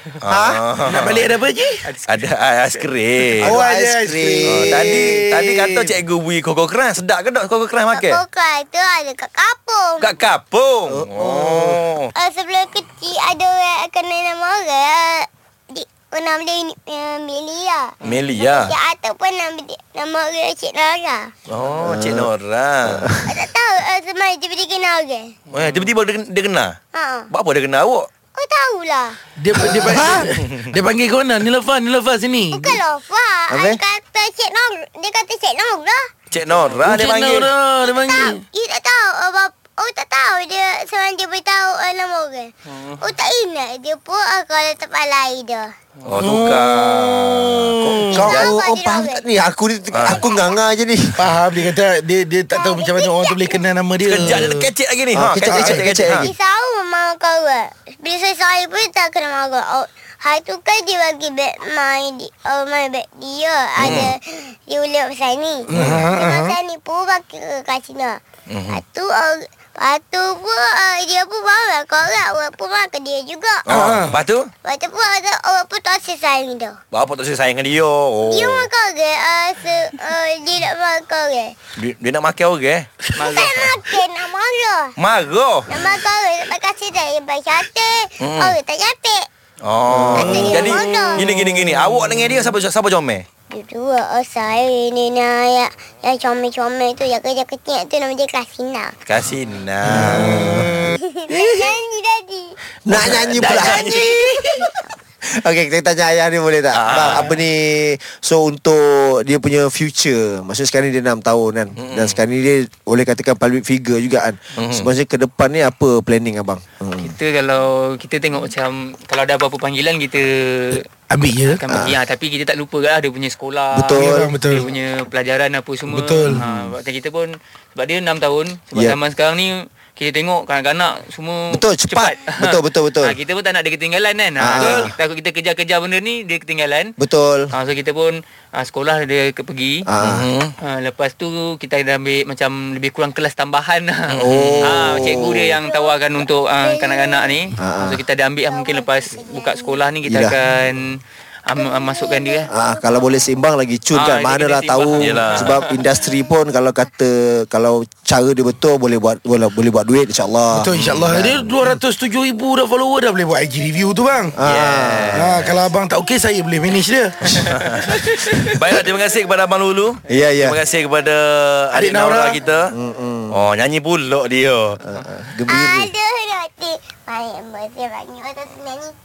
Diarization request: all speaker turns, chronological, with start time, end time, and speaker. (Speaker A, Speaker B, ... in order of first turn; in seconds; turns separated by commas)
Speaker A: 0.2-1.2, Speaker B: 0.2-0.6, Speaker C: 0.9-1.8, Speaker D: 1.8-2.8, Speaker A: 2.1-3.6, Speaker C: 3.4-5.4, Speaker B: 3.4-5.9, Speaker A: 4.5-8.2, Speaker E: 7.9-10.1, Speaker A: 10.0-12.1, Speaker B: 10.9-11.8, Speaker E: 12.2-21.3, Speaker D: 18.0-18.3, Speaker A: 18.0-18.7, Speaker A: 21.5-23.1, Speaker B: 21.8-22.3, Speaker B: 22.9-23.3, Speaker E: 23.3-25.3, Speaker D: 25.5-25.9, Speaker A: 25.5-26.8, Speaker E: 26.9-27.3, Speaker A: 27.3-28.1, Speaker E: 28.4-29.2, Speaker C: 29.4-32.8, Speaker B: 29.6-30.2, Speaker A: 29.8-30.6, Speaker E: 32.5-36.0, Speaker B: 33.5-33.8, Speaker A: 36.3-37.5, Speaker D: 36.5-36.9, Speaker C: 36.8-38.4, Speaker E: 37.8-45.7, Speaker D: 42.7-43.1, Speaker D: 46.0-46.3, Speaker A: 46.1-48.5, Speaker C: 46.2-48.3, Speaker B: 48.1-51.3, Speaker E: 48.2-49.3, Speaker A: 49.9-50.2, Speaker E: 50.1-50.5, Speaker C: 51.2-54.6, Speaker E: 52.5-53.6, Speaker A: 54.0-56.3, Speaker B: 55.1-56.3, Speaker C: 55.2-55.9, Speaker E: 56.2-73.7, Speaker A: 63.8-64.1, Speaker C: 65.7-66.6, Speaker A: 65.7-66.1, Speaker A: 68.5-68.8, Speaker A: 73.7-74.5, Speaker C: 73.7-74.2, Speaker E: 74.6-76.8, Speaker A: 76.9-78.7, Speaker E: 78.3-81.5, Speaker A: 81.8-82.9, Speaker D: 83.2-83.7, Speaker E: 83.2-85.0, Speaker A: 85.0-85.8, Speaker E: 85.7-89.3, Speaker A: 88.2-88.6, Speaker A: 89.6-93.3, Speaker B: 89.9-90.8, Speaker E: 90.2-91.3, Speaker E: 93.5-98.9, Speaker A: 99.1-100.7, Speaker B: 99.9-100.5, Speaker C: 99.9-101.7, Speaker E: 100.8-102.6, Speaker B: 102.9-103.9, Speaker C: 102.9-104.8, Speaker A: 103.6-104.0, Speaker B: 105.3-117.1, Speaker A: 106.7-107.3, Speaker A: 111.8-112.2, Speaker A: 114.6-114.9, Speaker D: 117.0-120.8, Speaker C: 121.1-121.6, Speaker D: 121.5-136.9, Speaker B: 121.7-122.0, Speaker B: 123.7-124.4, Speaker C: 124.0-124.7, Speaker C: 125.9-126.5, Speaker B: 131.5-133.2, Speaker B: 134.4-134.9, Speaker B: 137.0-137.5, Speaker D: 137.5-139.9, Speaker B: 139.9-140.3, Speaker A: 140.0-140.5, Speaker D: 140.6-150.9, Speaker A: 144.1-145.2, Speaker B: 144.2-145.5, Speaker E: 145.5-147.4, Speaker B: 147.6-148.0, Speaker E: 148.5-149.8, Speaker B: 150.1-150.4, Speaker D: 151.5-152.5, Speaker E: 151.6-153.1, Speaker B: 152.5-161.8, Speaker D: 153.9-155.7, Speaker A: 155.0-155.6, Speaker C: 160.5-164.4, Speaker A: 160.8-161.1, Speaker B: 164.4-165.4, Speaker A: 164.4-165.7, Speaker C: 165.1-167.5, Speaker A: 167.4-172.7, Speaker D: 167.9-168.3, Speaker B: 170.1-170.6, Speaker C: 171.7-172.4, Speaker B: 172.7-173.4, Speaker A: 173.3-174.8, Speaker B: 174.8-175.9, Speaker E: 175.5-178.9